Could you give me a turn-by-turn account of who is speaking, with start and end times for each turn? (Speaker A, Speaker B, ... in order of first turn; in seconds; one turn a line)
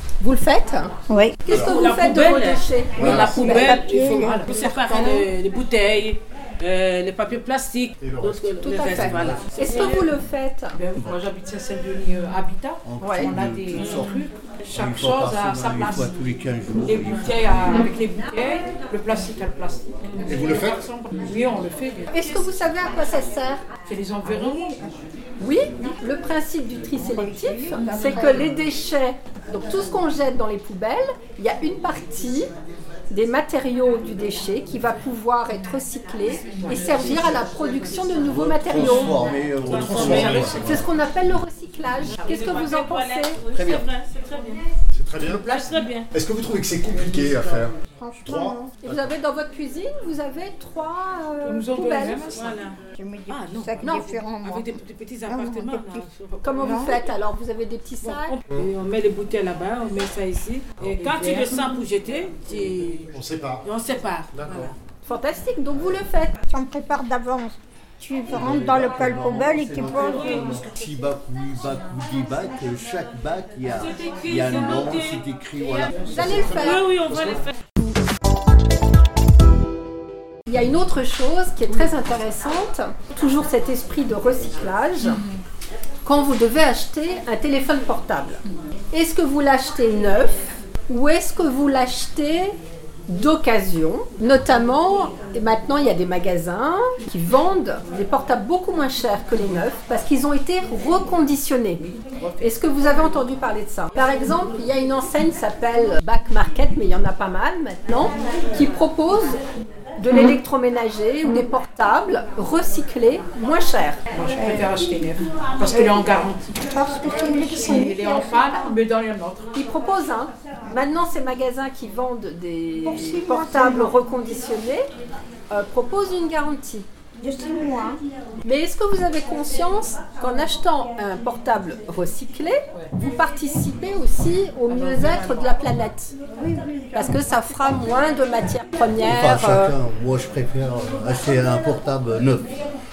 Speaker A: 0.2-0.9
Speaker B: 1.1-1.4
Speaker A: 1.4-4.4
Speaker C: 1.5-1.9
Speaker D: 1.6-10.1
Speaker C: 2.9-3.4
Speaker B: 3.0-5.2
Speaker C: 8.0-9.4
Speaker A: 8.6-10.8
Speaker E: 10.7-16.2
Speaker F: 12.8-17.9
Speaker A: 13.0-13.3
Speaker E: 16.8-22.1
Speaker C: 20.2-20.8
Speaker A: 22.1-23.6
Speaker E: 23.9-24.8
Speaker A: 25.4-32.5
Speaker B: 26.9-28.4
Speaker E: 27.9-28.6
Speaker A: 33.1-39.3
Speaker E: 36.6-37.4
Speaker F: 38.2-40.8
Speaker C: 39.6-40.8
Speaker D: 39.7-40.5
Speaker E: 39.8-40.8
Speaker A: 40.5-43.4
Speaker D: 42.2-44.6
Speaker F: 43.5-43.9
Speaker C: 44.9-45.5
Speaker D: 45.3-46.1
Speaker C: 46.1-49.1
Speaker B: 47.9-48.7
Speaker A: 48.8-52.2
Speaker E: 51.4-52.5
Speaker D: 51.8-57.1
Speaker B: 53.0-56.1
Speaker A: 53.8-54.1
Speaker A: 56.4-58.3
Speaker B: 56.6-57.0
Speaker D: 58.0-63.1
Speaker E: 60.9-61.6
Speaker C: 63.1-63.6
Speaker D: 63.6-64.7
Speaker C: 64.3-64.7
Speaker A: 65.0-66.3
Speaker B: 66.5-70.5
Speaker F: 68.3-76.8
Speaker D: 69.8-70.4
Speaker D: 73.7-77.5
Speaker A: 76.0-76.8
Speaker A: 80.5-85.2
Speaker A: 86.0-92.5
Speaker A: 93.1-101.8
Speaker E: 101.8-102.5
Speaker A: 102.4-109.4
Speaker A: 110.0-114.0
Speaker E: 114.1-116.5
Speaker B: 114.3-114.7
Speaker B: 116.6-118.4
Speaker E: 117.1-119.5
Speaker A: 119.5-124.8
Speaker B: 122.8-123.9
Speaker A: 125.5-126.9
Speaker B: 127.2-128.0
Speaker A: 128.4-136.1
Speaker E: 135.0-135.3
Speaker B: 136.4-137.2
Speaker A: 136.9-139.8
Speaker F: 139.0-142.5